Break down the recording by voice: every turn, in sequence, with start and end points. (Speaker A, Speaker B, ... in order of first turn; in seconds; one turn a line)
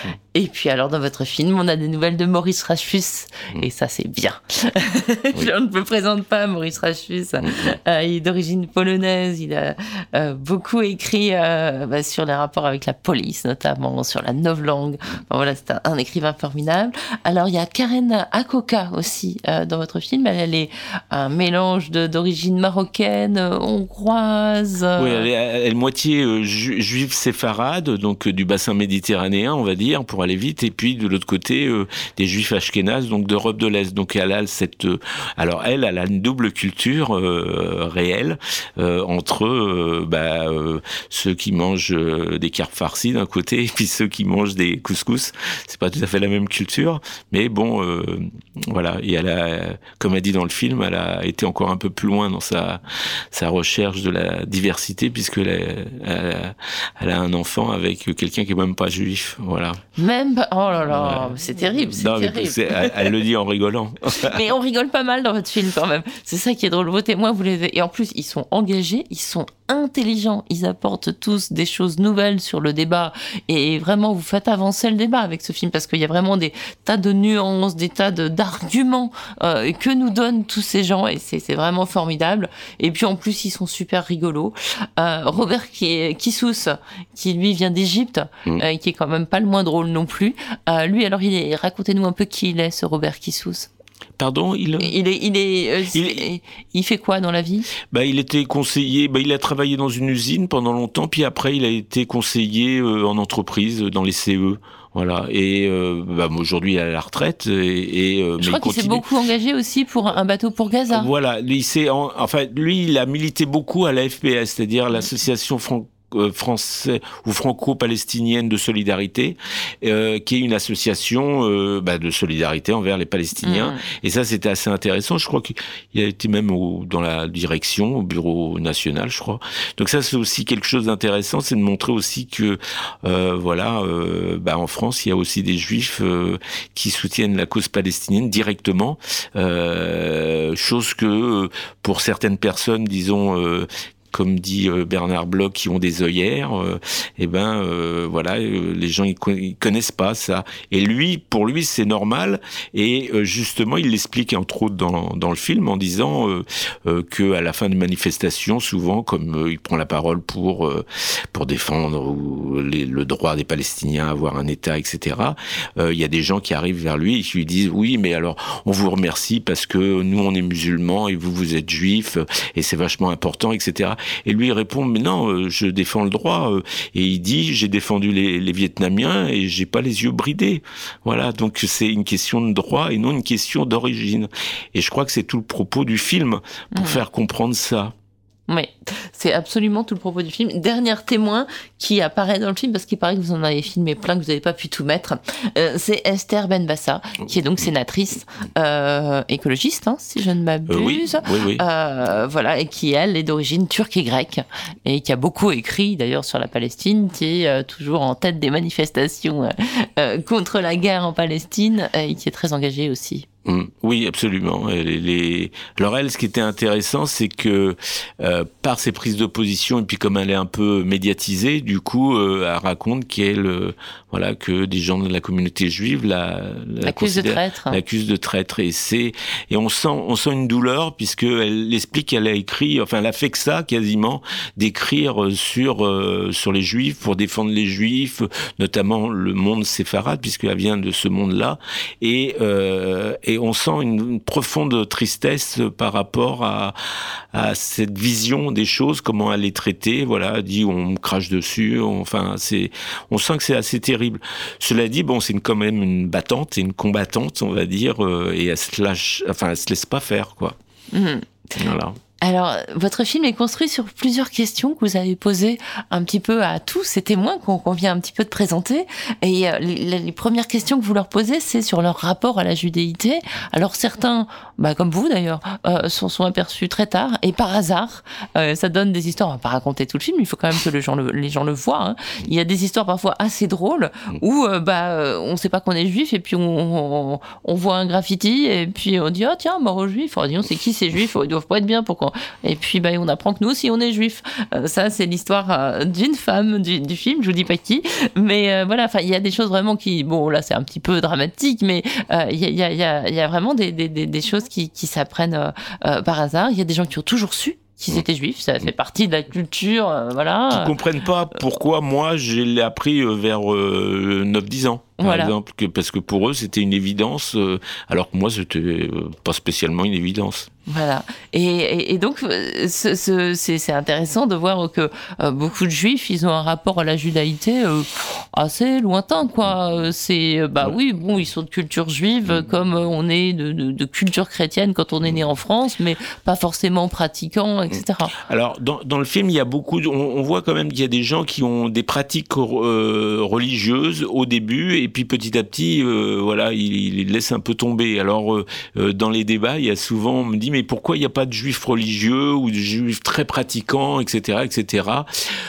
Speaker A: 0.3-25.3
Speaker B: 7.4-7.8
Speaker B: 25.0-59.8
Speaker A: 60.0-63.1
Speaker B: 60.9-61.4
Speaker B: 61.9-64.4
Speaker A: 64.2-93.7
Speaker B: 94.2-95.0
Speaker A: 94.8-97.7
Speaker B: 95.9-96.2
Speaker B: 97.9-109.1
Speaker A: 108.4-111.1
Speaker B: 110.9-187.9
Speaker A: 123.4-123.8
Speaker A: 186.7-187.0
Speaker A: 188.5-213.3
Speaker B: 200.7-201.6
Speaker B: 213.4-246.8
Speaker A: 226.8-227.8
Speaker B: 247.3-260.6
Speaker A: 260.9-261.3
Speaker B: 261.6-262.0
Speaker A: 262.2-310.7
Speaker B: 310.5-320.5
Speaker A: 315.0-315.3
Speaker A: 320.7-338.1
Speaker B: 337.7-355.1